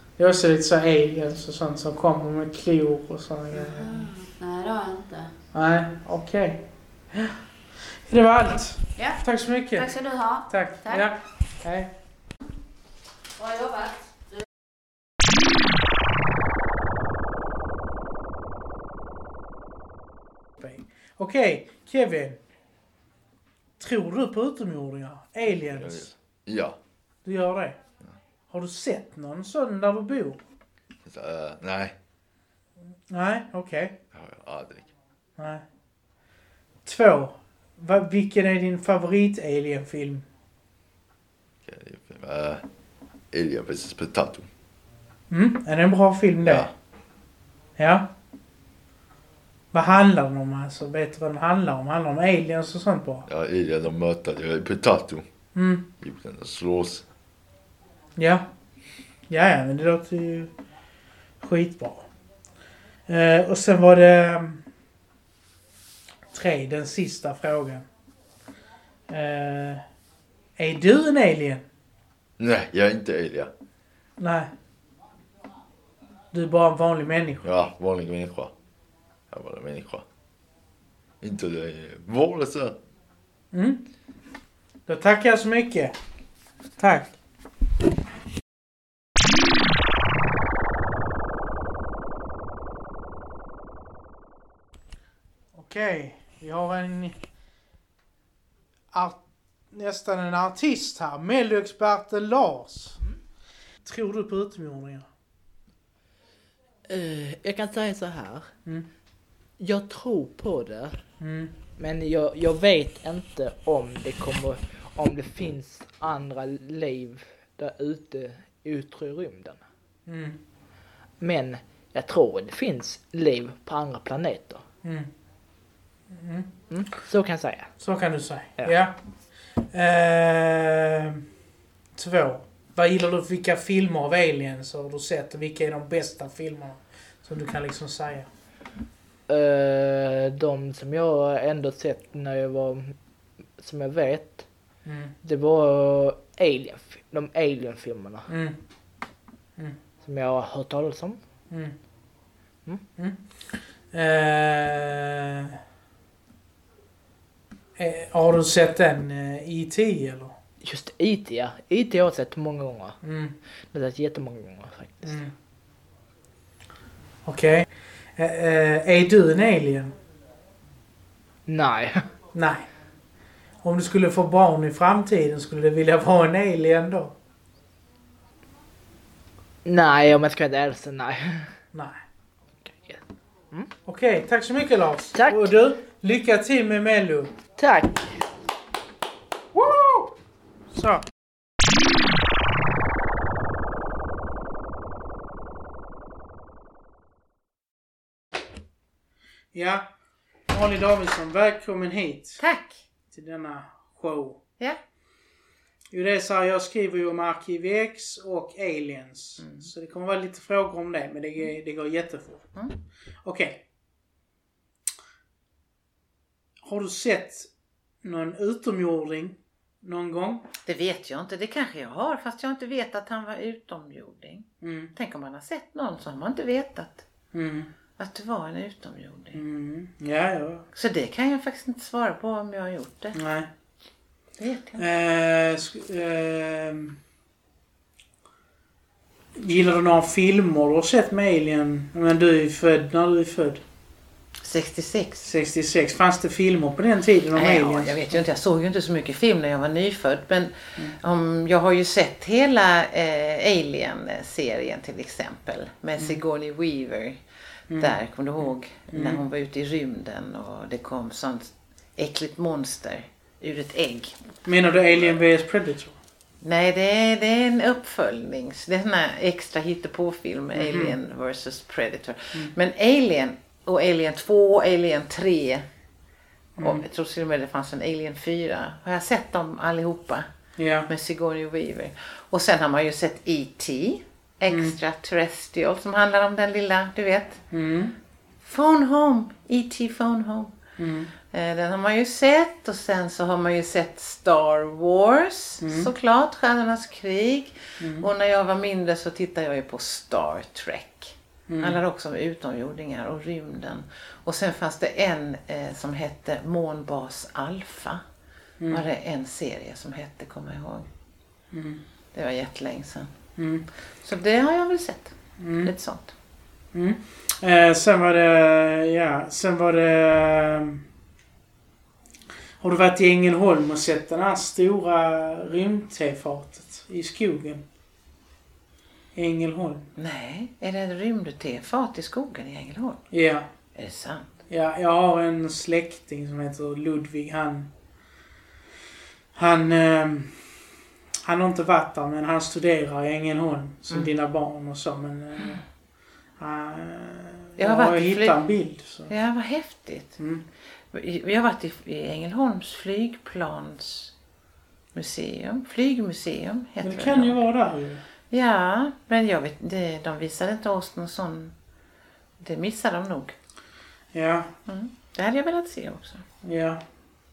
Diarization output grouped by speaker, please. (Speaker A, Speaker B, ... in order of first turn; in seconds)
Speaker A: 0.2-4.1, 5.5-7.4, 8.1-9.9, 10.5-11.9, 20.6-22.4, 23.8-26.1, 27.2-27.8, 28.5-30.4, 33.1-34.0, 35.4-35.6, 36.9-40.2, 45.3-46.7, 47.8-48.1, 49.7-53.3, 55.5-55.9, 58.2-58.5, 59.3-60.5, 61.4-62.1, 63.1-64.6, 66.3-67.9, 69.1-69.8, 70.6-71.6, 74.2-74.5, 76.3-77.4, 83.5-83.8, 84.9-85.9, 86.8-87.2, 95.5-97.2, 98.9-103.0, 103.8-105.1, 111.2-111.5, 120.1-120.4, 124.8-125.1, 126.1-126.5, 127.8-129.0, 129.7-131.2, 131.9-138.3, 144.8-145.2, 148.3-148.6, 151.5-151.8, 153.0-153.2, 153.9-155.6, 157.8-160.3, 163.0-163.4, 165.0-165.3, 167.2-169.9, 172.3-172.7, 173.6-177.1, 181.7-182.0, 183.9-187.4, 190.7-191.1, 199.5-199.9, 200.5-202.4, 203.1-204.4, 205.9-212.4, 213.2-213.6, 216.6-217.5, 218.0-220.5, 224.6-224.9, 227.3-227.7, 229.3-230.6, 233.1-233.5, 234.8-237.0, 239.4-243.6, 245.2-248.2, 257.7-258.0, 258.9-259.2, 264.4-266.0, 270.6-271.0, 276.6-276.8, 280.6-280.9, 284.5-284.8, 287.5-287.9, 290.8-291.1, 295.6-295.9, 297.8-298.1, 301.5-301.8, 308.6-308.9, 311.5-311.8, 313.4-313.7, 315.4-315.7, 316.7-320.8, 322.6-327.6, 329.1-329.9, 333.1-333.5, 334.5-337.7, 339.4-340.4, 341.2-345.6, 346.4-349.1, 350.2-350.5, 356.8-358.0, 364.1-364.5, 366.4-366.8
Speaker B: 3.5-5.3, 9.0-9.2, 9.7-11.1, 13.4-14.0
Speaker C: 25.7-26.8, 31.0-31.9, 34.1-34.9, 41.7-42.6, 43.3-44.5, 46.4-46.7, 53.3-55.2, 56.0-57.1, 72.4-73.5, 77.4-78.5, 79.3-80.0, 81.2-82.8
Speaker D: 106.9-108.5, 109.6-111.0, 111.8-119.6, 121.2-124.6, 126.7-127.7, 139.3-142.9, 143.6-144.4, 145.2-148.2, 150.0-151.2, 160.6-163.0, 163.7-165.2, 171.4-172.1, 179.6-181.5, 182.7-183.0, 187.6-188.1
Speaker E: 202.4-202.8, 220.6-227.1, 228.0-229.4, 230.7-233.2, 234.4-234.8, 244.4-245.2, 247.3-257.2, 257.8-264.2, 266.4-275.7, 276.6-280.3, 280.9-287.4, 288.4-290.5, 291.3-308.0, 308.7-310.9, 312.1-313.1, 314.0-316.1, 330.0-333.0, 333.8-334.4, 347.6-348.4, 349.1-350.1, 350.9-354.1, 354.9-357.4, 358.3-361.5, 362.4-363.4, 364.7-366.2